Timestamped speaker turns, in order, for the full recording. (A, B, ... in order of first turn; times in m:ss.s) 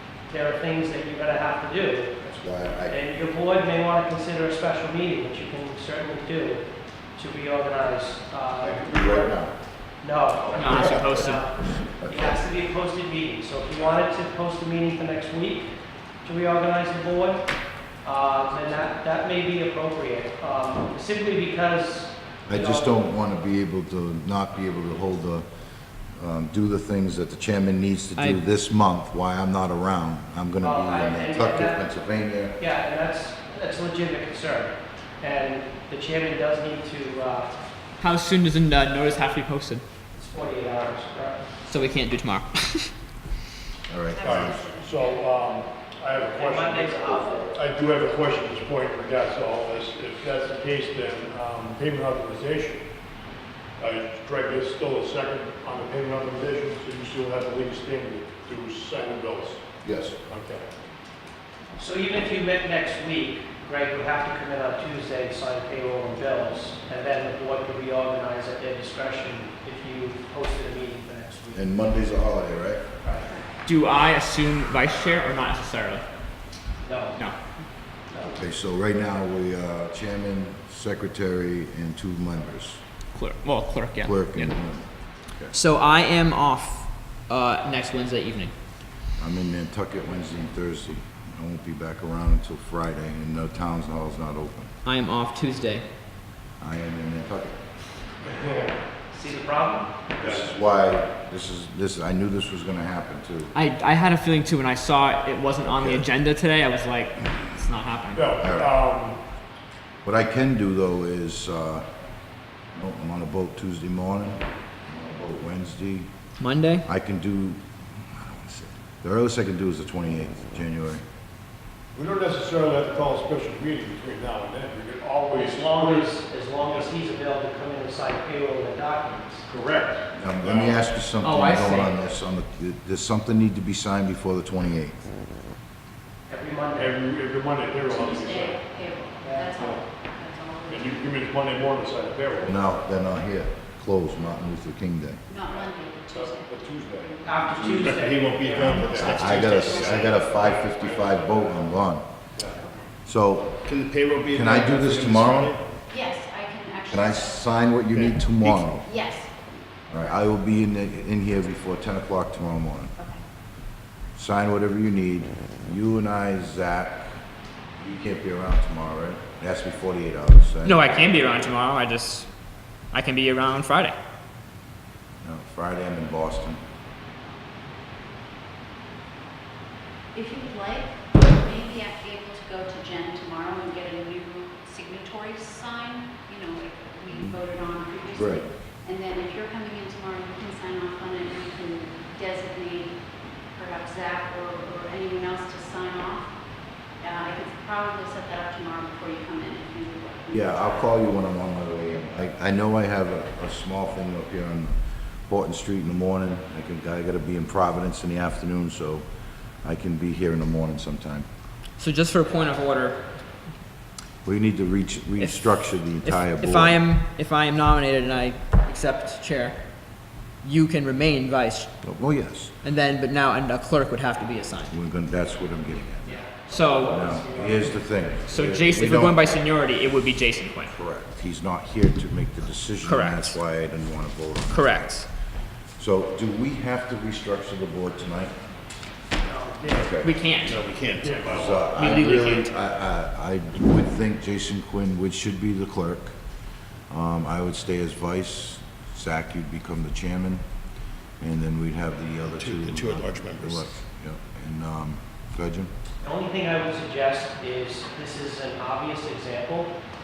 0:00.3-0:02.1 A
0:02.2-0:03.0 B
0:02.9-0:06.6 A
0:07.2-0:09.4 A
0:08.6-0:09.6 B
0:10.0-0:23.0 A
0:10.5-0:11.5 C
0:11.8-0:12.4 B
0:22.4-0:25.5 B
0:26.1-0:32.6 B
0:28.2-0:28.4 C
0:30.6-0:37.6 A
0:38.0-0:39.8 C
0:40.2-0:41.6 A
0:41.6-0:42.9 C
0:43.9-0:44.6 B
0:44.1-0:45.2 D
0:44.2-0:52.8 E
0:46.3-0:47.6 A
0:53.8-0:59.6 E
0:59.8-1:00.2 B
1:00.3-1:00.6 E
1:01.8-1:11.7 A
1:11.5-1:12.8 B
1:13.0-1:13.3 A
1:13.2-1:13.6 D
1:13.6-1:16.1 C
1:16.8-1:17.2 A
1:18.1-1:18.4 A
1:18.2-1:22.8 B
1:23.1-1:24.6 C
1:24.0-1:25.5 B
1:25.5-1:28.5 C
1:29.2-1:34.7 B
1:34.8-1:35.9 C
1:36.6-1:37.6 B
1:38.3-1:38.8 E
1:39.1-1:39.9 A
1:40.2-1:43.5 B
1:40.2-1:40.5 E
1:43.5-1:48.4 C
1:45.6-1:46.1 B
1:48.1-1:49.2 E
1:48.4-1:48.8 B
1:50.0-1:51.9 B
1:52.7-1:56.1 B
1:56.4-1:56.8 C
1:56.8-2:01.0 B
2:01.9-2:06.1 E
2:05.3-2:09.5 A
2:06.6-2:06.9 E
2:09.5-2:10.8 E
2:10.1-2:15.0 B
2:11.2-2:12.0 C
2:16.3-2:17.0 A
2:16.8-2:18.6 E
2:17.8-2:21.1 D
2:19.2-2:19.5 A
2:19.5-2:19.8 E
2:20.7-2:22.6 E
2:22.4-2:25.2 B
2:25.3-2:28.0 D
2:25.4-2:27.9 E
2:27.2-2:30.0 A
2:27.8-2:30.2 F
2:28.4-2:29.2 E
2:28.8-2:30.2 D
2:29.0-2:32.1 B
2:30.2-2:31.7 E
2:32.4-2:32.6 E
2:32.5-2:32.9 D
2:33.0-2:33.6 B
2:33.7-2:35.6 F
2:34.2-2:35.6 B
2:35.9-2:37.4 D
2:36.9-2:38.9 B
2:37.9-2:38.6 F
2:38.7-2:39.3 D
2:39.9-2:43.0 B
2:44.2-2:47.2 B
2:47.8-2:51.0 B
2:50.6-2:52.3 C
2:52.9-2:54.0 C
2:55.2-2:56.6 B
3:00.1-3:13.0 D
3:07.1-3:07.4 B
3:08.1-3:08.4 B
3:13.5-3:16.3 D
3:17.0-3:20.9 D
3:20.3-3:29.0 B
3:29.6-3:31.3 B
3:31.8-3:33.5 C
3:34.2-3:36.8 B
3:35.2-3:44.8 C
3:41.8-3:42.5 B
3:44.7-3:46.3 B
3:46.0-3:47.8 A
3:46.5-3:47.1 C
3:46.9-3:49.3 B
3:48.3-3:50.8 C
3:50.7-3:55.1 B
3:52.8-3:53.4 C
3:54.5-3:55.1 C
3:55.8-3:58.3 B
3:59.2-3:59.9 A
3:59.7-4:00.1 B
4:00.0-4:00.7 C
4:00.4-4:01.8 F
4:01.0-4:01.4 E
4:01.2-4:06.2 B
4:01.6-4:02.5 C
4:06.9-4:10.4 B
4:11.2-4:15.7 B
4:12.4-4:13.7 F
4:16.0-4:19.8 A